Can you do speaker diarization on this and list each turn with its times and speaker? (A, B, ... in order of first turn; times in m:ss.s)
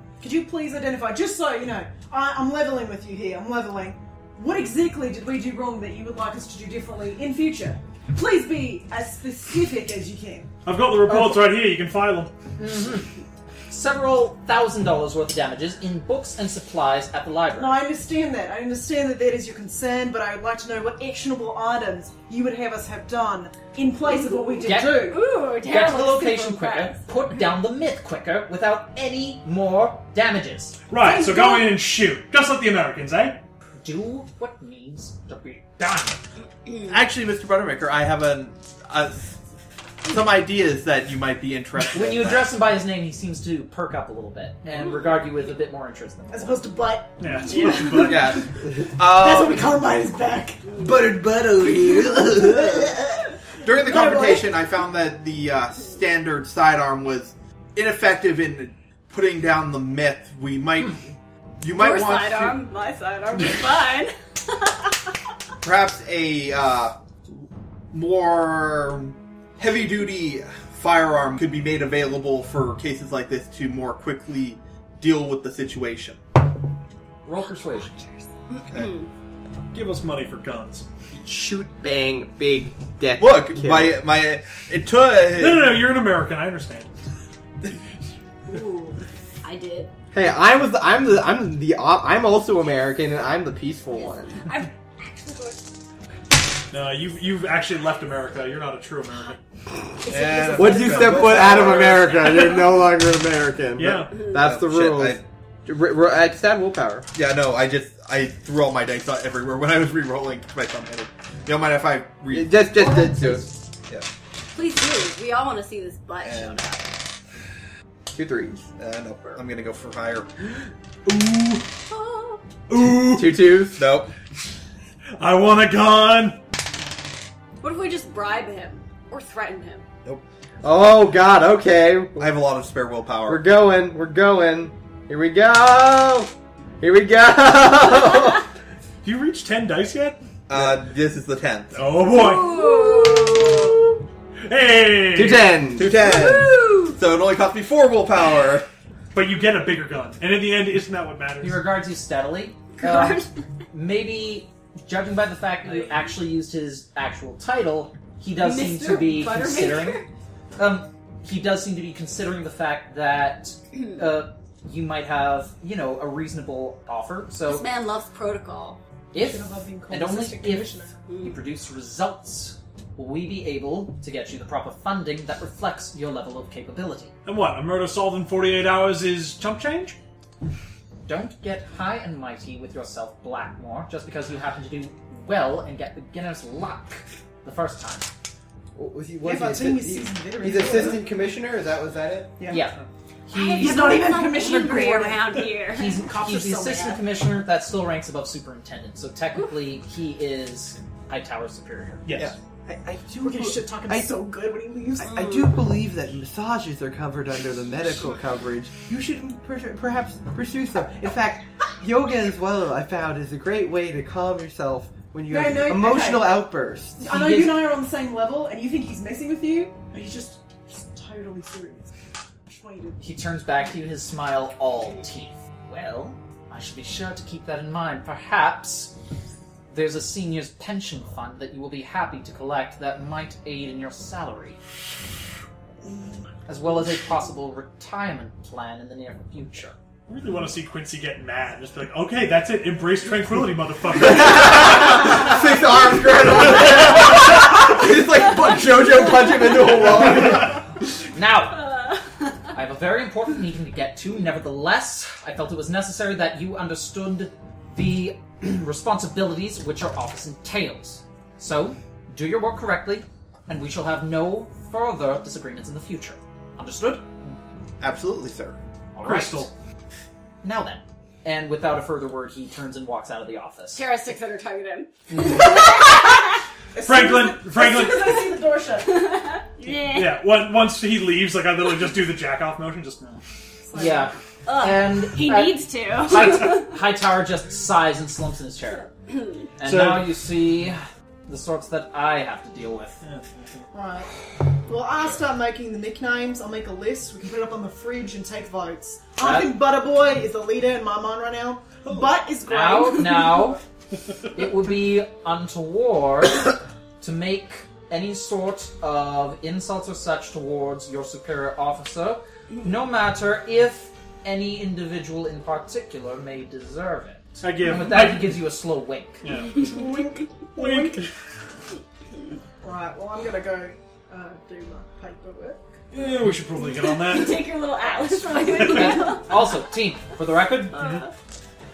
0:00.2-0:10.5 A
0:10.6-0:12.3 B
0:11.0-0:11.6 C
0:12.6-0:13.1 C
0:13.7-0:17.8 C
0:17.5-0:25.2 A
0:24.3-0:27.0 D
0:24.6-0:30.8 C
0:30.9-0:33.4 B
0:31.1-0:31.6 D
0:33.8-0:36.2 C
0:36.8-0:39.4 E
0:40.0-0:42.5 E
0:41.9-0:46.6 C
0:46.3-0:50.6 A
0:47.2-0:48.4 B
0:48.0-0:49.7 E
0:50.8-0:52.3 E
0:51.2-0:52.9 F
0:53.6-1:02.6 E
0:53.7-0:54.5 A
1:01.7-1:04.9 D
1:05.6-1:16.2 E
1:17.2-1:18.0 C
1:17.9-1:19.0 D
1:18.6-1:18.9 E
1:19.7-1:20.8 B
1:21.1-1:24.0 F
1:23.2-1:25.8 E
1:25.3-1:26.9 B
1:28.5-1:29.9 D
1:30.1-1:34.4 F
1:34.4-1:35.6 D
1:36.7-1:39.4 B
1:40.1-1:41.1 D
1:40.1-1:42.2 E
1:40.1-1:41.2 A
1:40.5-1:47.1 F
1:43.8-1:44.2 B
1:44.1-1:45.2 E
1:47.1-1:52.6 E
1:52.3-1:53.5 F
1:52.7-1:53.6 C
1:54.5-1:56.9 D
1:56.2-1:56.6 E
1:58.1-1:58.7 F
1:58.7-2:00.3 E
2:01.0-2:01.7 B
2:01.9-2:02.4 D
2:02.7-2:03.5 B
2:03.1-2:03.8 F
2:03.7-2:04.1 E
2:05.2-2:06.4 B
2:07.6-2:09.8 D
2:10.6-2:12.3 F
2:12.2-2:13.4 E
2:13.3-2:18.4 F
2:19.0-2:20.2 B
2:20.5-2:21.9 E
2:21.7-2:22.7 B
2:22.1-2:23.7 D
2:24.4-2:25.6 B
2:25.1-2:25.9 F
2:25.7-2:28.7 E
2:25.9-2:27.0 D
2:29.1-2:31.6 B
2:31.4-2:40.0 C
2:32.8-2:33.3 D
2:38.4-2:40.1 D
2:40.6-2:47.7 C
2:47.4-2:48.8 D
2:49.1-2:57.1 C
2:49.1-2:50.9 A
2:51.1-2:51.3 D
2:57.2-3:00.0 B
3:01.1-3:08.1 C
3:08.7-3:12.4 F
3:09.2-3:11.1 A
3:12.4-3:12.6 A
3:12.5-3:14.0 C
3:13.3-3:16.1 D
3:13.5-3:15.4 A
3:15.7-3:22.0 C
3:16.1-3:17.0 A
3:16.6-3:17.0 D
3:22.0-3:22.3 B
3:22.2-3:24.1 F
3:23.1-3:25.2 A
3:25.0-3:37.1 F
3:25.0-3:25.4 D
3:35.3-3:41.9 A
3:37.0-3:37.7 C
3:42.5-3:43.0 A
3:43.0-3:48.9 C
3:49.7-3:54.6 C
3:56.4-3:59.8 C
4:00.1-4:05.0 B
4:04.0-4:10.6 F
4:11.1-4:11.7 C
4:12.5-4:27.1 C
4:27.8-4:28.6 E
4:28.9-4:29.5 C
4:29.0-4:29.5 B
4:30.4-4:33.8 C
4:33.7-4:36.2 D
4:35.1-4:35.4 C
4:36.7-4:39.0 A
4:36.8-4:38.3 B
4:38.9-4:40.2 D
4:39.8-4:43.2 B
4:43.6-4:44.1 A
4:43.7-4:48.9 C
4:44.4-4:46.7 D
4:49.6-4:53.0 C
4:49.6-4:50.1 B
4:53.0-4:53.7 B
4:53.7-4:54.1 A
4:54.6-5:03.4 A
4:59.2-4:59.6 C
5:02.4-5:03.6 C
5:04.3-5:19.2 C
5:17.4-5:18.4 B
5:19.2-5:19.8 B
5:19.5-5:21.0 A
5:20.6-5:21.1 B
5:22.6-5:25.7 A
5:25.9-5:27.5 B
5:26.8-5:29.5 D
5:28.6-5:30.8 C
5:30.7-5:31.0 B
5:30.8-5:31.1 D